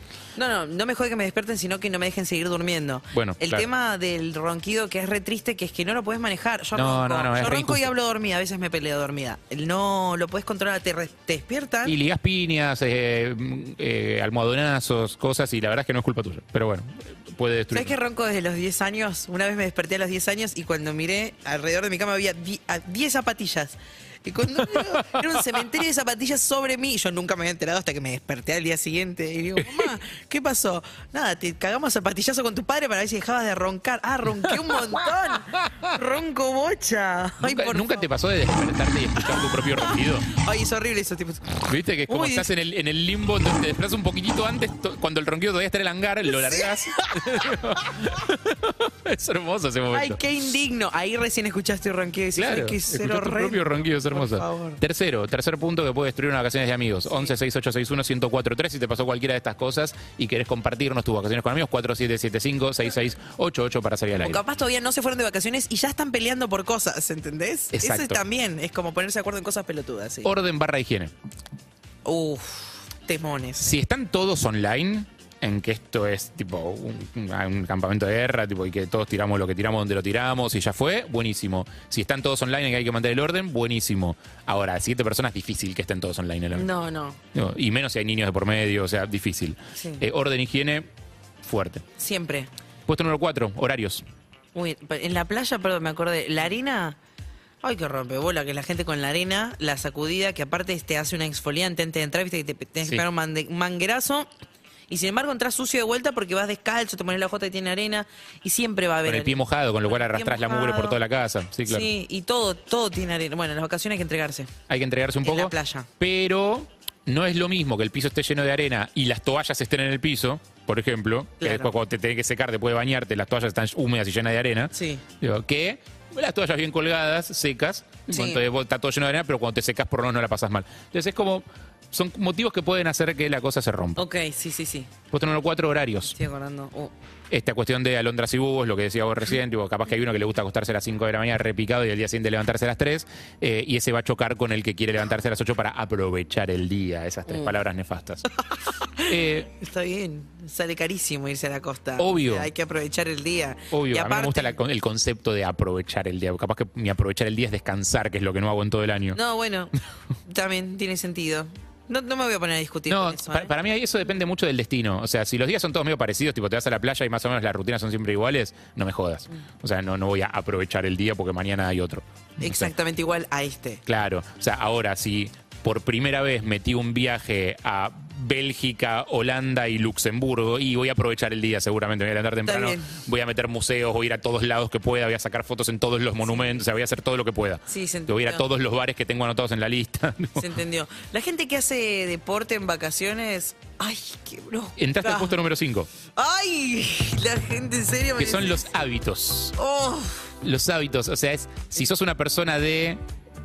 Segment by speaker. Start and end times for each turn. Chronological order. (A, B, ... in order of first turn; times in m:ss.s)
0:00.4-0:11.9 A
0:03.1-0:03.7 B
0:06.7-0:07.9 B
0:11.8-0:18.0 B
0:17.7-0:38.1 A
0:24.6-0:25.4 B
0:29.6-0:29.9 B
0:34.4-0:35.0 B
0:37.4-0:40.3 B
0:40.3-0:42.5 A
0:41.6-0:50.2 B
0:46.4-0:47.5 A
0:49.9-0:54.8 A
0:52.3-1:04.4 B
1:04.2-1:10.3 A
1:07.7-1:08.2 B
1:10.2-1:11.1 B
1:12.0-1:13.6 A
1:13.6-1:26.7 B
1:26.5-1:27.2 A
1:27.3-1:30.9 B
1:29.8-1:30.0 A
1:31.4-1:31.8 B
1:32.0-1:32.5 A
1:32.9-1:34.0 B
1:34.5-1:37.0 A
1:37.6-1:44.3 A
1:44.9-1:51.0 A
1:49.0-1:51.9 B
1:51.7-1:54.5 A
1:54.7-2:14.0 B
1:55.2-1:55.9 A
2:01.4-2:01.7 A
2:04.7-2:05.0 A
2:08.1-2:08.4 A
2:14.0-2:14.9 A
2:15.1-2:16.2 B
2:16.1-2:16.9 A
2:17.3-2:28.2 B
2:27.3-2:27.5 A
2:29.0-2:34.6 A
2:29.1-2:29.5 B
2:32.0-2:32.5 B
2:33.7-2:39.2 B
2:39.1-2:39.7 A
2:40.2-2:43.5 A
2:42.9-2:52.7 B
2:52.4-2:53.8 A
2:53.8-3:10.5 B
3:02.4-3:02.9 A
3:06.2-3:06.6 A
3:07.7-3:08.4 A
3:10.4-3:15.4 A
3:14.8-3:15.9 B
3:16.2-3:18.7 A
3:18.2-3:19.6 B
3:19.6-3:20.3 A
3:20.4-3:23.0 B